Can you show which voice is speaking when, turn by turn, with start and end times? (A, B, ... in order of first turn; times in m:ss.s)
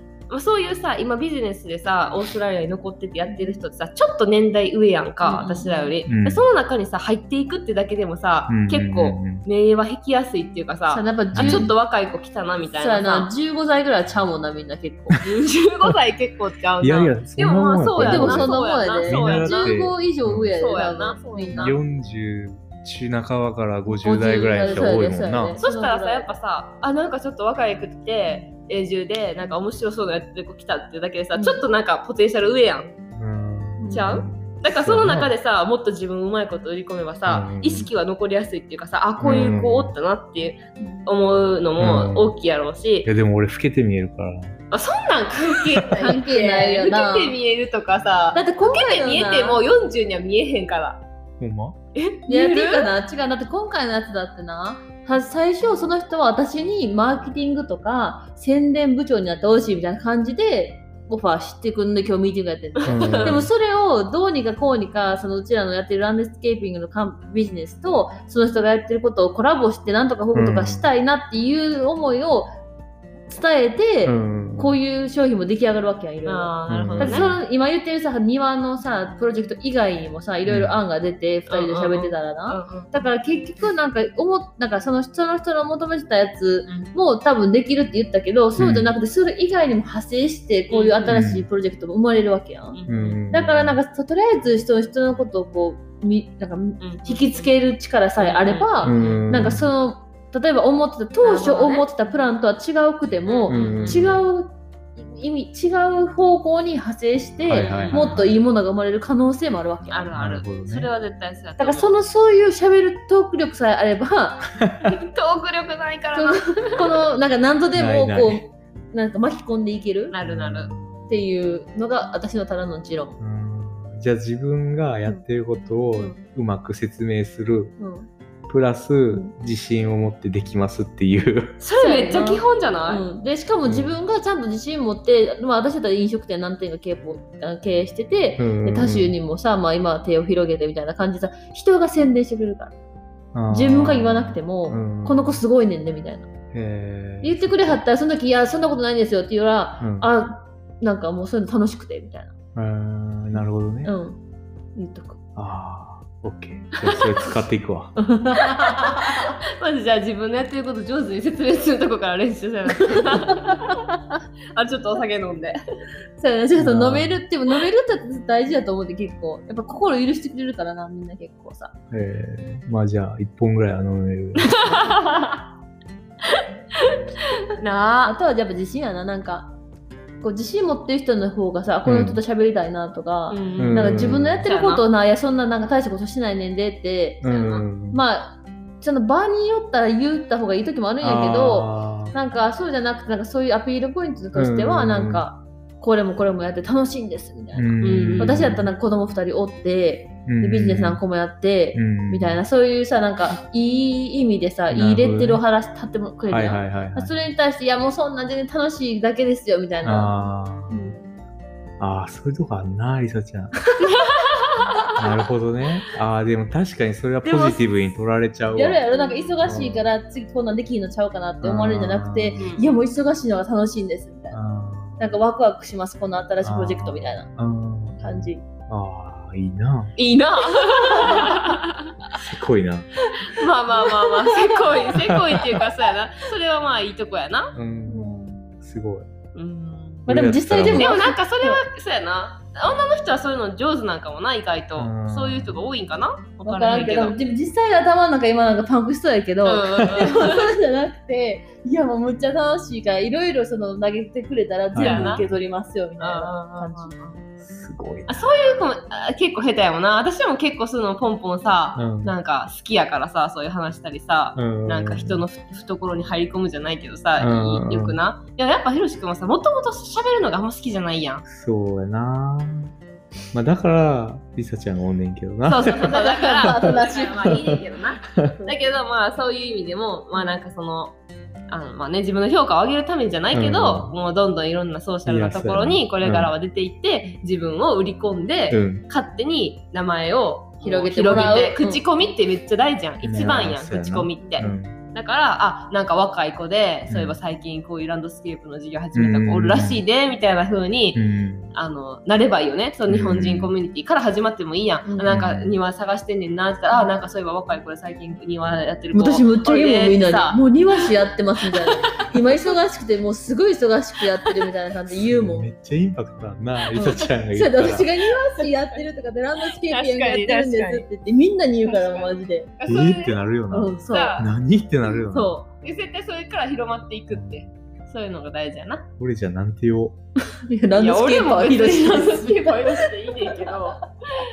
0:00.3-0:13.3 A
0:03.2-0:03.6 B
0:05.2-0:06.0 B
0:06.1-0:06.5 C
0:08.5-0:09.4 C
0:10.9-0:11.7 B
0:11.3-0:11.7 C
0:12.7-0:15.2 B
0:15.2-0:19.8 A
0:16.8-0:20.5 C
0:17.9-0:21.7 B
0:20.6-0:21.8 A
0:21.5-0:25.6 C
0:23.9-0:26.3 B
0:24.5-0:24.9 A
0:25.5-0:32.9 A
0:31.3-0:31.6 B
0:33.2-0:35.3 C
0:33.8-0:34.2 B
0:33.9-0:43.1 A
0:37.2-0:37.9 C
0:39.2-0:39.9 C
0:40.8-0:41.1 B
0:41.8-0:42.3 C
0:43.0-0:44.6 C
0:44.7-0:51.0 A
0:46.0-0:47.4 B
0:48.3-0:49.6 B
0:51.4-0:51.7 C
0:52.0-0:52.9 A
0:52.3-1:12.5 B
1:02.8-1:03.4 A
1:02.8-1:03.5 C
1:10.3-1:10.9 C
1:13.3-1:32.8 B
1:14.0-1:14.8 C
1:16.2-1:17.4 A
1:16.7-1:17.3 C
1:20.4-1:20.8 C
1:21.5-1:23.0 A
1:28.6-1:28.9 C
1:30.7-1:31.2 A
1:31.1-1:31.5 C
1:32.7-1:33.2 A
1:32.9-1:33.8 C
1:33.3-1:50.1 B
1:36.8-1:37.5 A
1:38.2-1:39.5 A
1:38.8-1:39.7 C
1:41.2-1:42.1 A
1:43.3-1:44.1 A
1:43.5-1:44.2 C
1:47.4-1:48.3 C
1:47.5-1:48.2 A
1:49.9-1:51.9 A
1:50.1-1:50.9 C
1:51.6-1:54.6 B
1:54.9-1:56.9 A
1:56.1-2:00.2 B
1:57.7-1:58.4 C
2:00.1-2:00.7 A
2:00.2-2:01.2 C
2:01.1-2:03.2 B
2:03.2-2:07.7 C
2:07.8-2:08.1 B
2:08.5-2:11.6 C
2:11.6-2:13.1 A
2:11.8-2:22.7 B
2:13.6-2:14.0 C
2:18.4-2:19.1 C
2:23.3-2:25.4 C
2:23.5-2:26.3 B
2:26.5-2:27.8 C
2:27.2-2:32.3 B
2:29.8-2:30.1 C
2:32.5-2:33.9 C
2:33.8-2:34.2 B
2:34.8-2:35.2 B
2:35.4-2:37.9 C
2:36.8-2:37.1 A
2:38.0-2:39.2 B
2:38.6-2:43.8 A
2:42.9-2:43.9 B
2:44.5-2:45.6 A
2:46.2-2:51.7 B
2:46.6-2:47.2 C
2:51.9-2:54.9 C
2:54.4-2:55.4 A
2:56.3-2:57.0 A
2:57.6-2:58.1 A
2:58.0-2:59.5 B
3:00.2-3:30.2 B
3:01.8-3:02.2 C
3:03.3-3:04.8 A
3:03.6-3:04.5 C
3:07.2-3:08.0 C
3:07.3-3:07.6 A
3:11.0-3:12.1 C
3:14.3-3:15.2 C
3:17.5-3:18.7 C
3:17.8-3:18.4 A
3:20.3-3:21.0 C
3:21.7-3:22.4 C
3:24.7-3:25.4 C
3:26.3-3:27.2 C
3:29.8-3:30.9 C
3:30.7-3:31.0 B
3:31.8-3:33.5 C
3:34.0-3:34.7 A
3:35.0-3:38.8 C
3:37.2-3:37.6 B
3:38.5-3:44.4 B
3:38.9-3:39.3 A
3:39.4-3:39.9 C
3:41.4-3:42.5 C
3:42.4-3:42.6 A
3:44.3-3:45.1 C
3:45.0-3:47.3 B
3:46.4-3:49.9 C
3:48.0-3:48.4 B
3:50.0-3:51.7 A
3:51.0-3:51.4 B
3:52.1-3:52.9 C
3:53.3-3:57.5 A
3:57.5-3:59.0 C
3:57.8-3:58.3 B
3:59.3-4:00.1 A
4:00.1-4:00.9 C
4:00.1-4:01.6 B
4:00.7-4:07.1 A
4:04.8-4:05.6 C
4:06.4-4:16.9 B
4:09.4-4:10.5 A
4:14.7-4:15.2 C
4:14.8-4:15.3 A
4:16.0-4:17.2 A
4:17.4-4:18.2 C
4:18.1-4:31.2 A
4:21.8-4:22.1 C
4:24.4-4:25.2 C
4:27.2-4:28.0 C
4:31.3-4:32.7 C
4:33.3-4:37.5 C
4:35.5-4:41.0 A
4:35.7-4:37.6 B
4:41.5-5:01.0 A
4:43.3-4:43.9 C
4:45.0-4:46.3 C
4:48.5-4:48.8 C
4:50.6-4:51.8 B
4:53.0-4:54.8 C
4:56.9-4:57.2 C
4:58.9-4:59.8 C
5:00.9-5:01.5 C
5:01.5-5:10.9 A
5:02.9-5:03.5 C
5:04.8-5:05.2 B
5:05.0-5:05.5 C
5:08.9-5:15.5 B
5:11.5-5:12.5 A
5:15.0-5:17.9 C
5:16.8-5:22.5 B
5:19.5-5:20.8 A
5:21.6-5:24.3 A
5:22.6-5:25.4 C
5:23.5-5:24.2 B
5:25.1-5:28.8 A
5:27.1-5:27.4 C
5:29.0-5:29.9 C
5:30.5-5:33.5 B
5:30.7-5:33.8 A